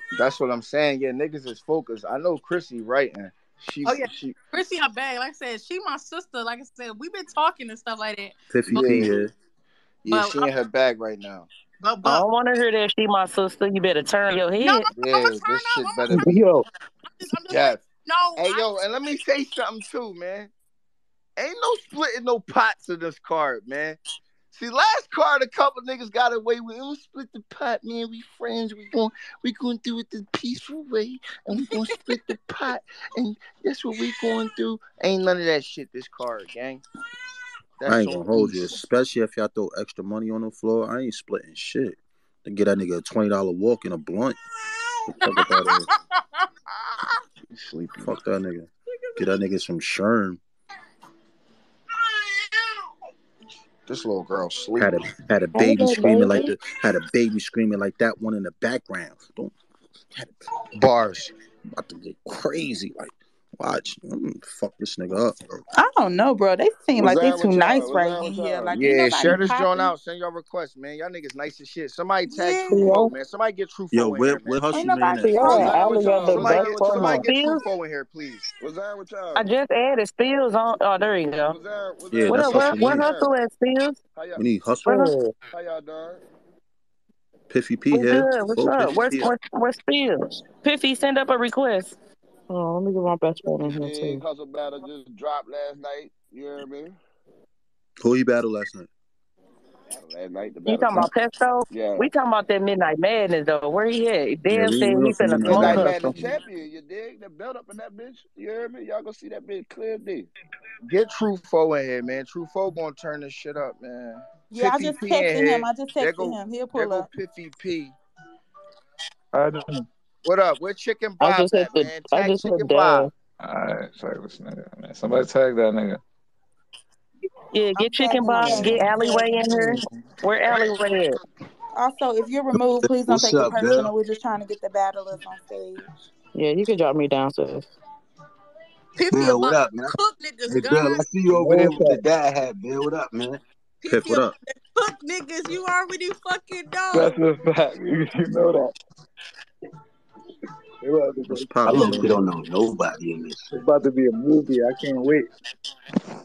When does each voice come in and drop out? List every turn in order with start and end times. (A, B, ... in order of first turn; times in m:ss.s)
0:00.1-0:04.3 A
0:03.8-0:09.0 B
0:08.5-0:09.3 C
0:08.7-0:09.2 A
0:10.0-0:11.5 A
0:10.1-0:10.5 B
0:11.8-0:12.2 B
0:12.0-0:14.9 D
0:14.6-0:16.1 B
0:14.9-0:16.4 A
0:16.2-0:16.6 E
0:17.1-0:18.6 B
0:17.5-0:17.8 A
0:18.4-0:20.5 A
0:21.4-0:24.0 A
0:24.5-0:36.8 A
0:37.8-0:38.8 A
0:37.8-0:44.4 C
0:45.1-0:45.9 C
0:45.2-0:45.8 B
0:47.5-0:48.2 A
0:48.0-0:50.4 C
0:53.9-0:54.9 A
0:54.8-0:59.5 C
0:55.5-0:56.5 D
1:00.7-1:01.3 A
1:01.7-1:05.6 C
1:05.7-1:09.9 F
1:07.0-1:08.8 G
1:08.7-1:14.6 A
1:12.7-1:13.1 D
1:13.9-1:15.9 C
1:14.7-1:16.4 F
1:15.1-1:17.6 D
1:15.5-1:17.3 G
1:16.2-1:18.4 A
1:18.6-1:19.5 G
1:19.3-1:21.6 D
1:21.5-1:23.3 G
1:22.1-1:23.1 C
1:22.3-1:24.0 D
1:24.2-1:24.4 G
1:24.4-1:25.1 C
1:24.8-1:25.3 D
1:25.5-1:26.2 G
1:27.5-1:29.3 C
1:27.9-1:32.0 D
1:32.5-1:34.2 D
1:33.6-1:37.0 G
1:38.0-1:38.9 C
1:39.9-1:41.1 G
1:40.7-1:46.1 D
1:41.7-1:42.1 G
1:44.5-1:46.3 C
1:45.4-1:50.3 G
1:50.8-1:58.0 A
1:54.5-1:57.1 F
1:59.3-1:59.8 E
2:00.2-2:03.1 A
2:01.2-2:03.1 D
2:03.4-2:06.0 E
2:07.5-2:11.2 D
2:07.8-2:09.8 F
2:11.7-2:15.9 F
2:12.8-2:13.9 H
2:16.3-2:17.7 D
2:19.0-2:21.0 B
2:19.1-2:19.9 H
2:20.5-2:23.4 H
2:21.3-2:22.0 E
2:23.8-2:27.2 B
2:23.8-2:24.3 C
2:26.9-2:28.7 E
2:30.8-2:31.5 E
2:31.3-2:32.2 C
2:31.6-2:33.5 H
2:33.5-2:35.3 E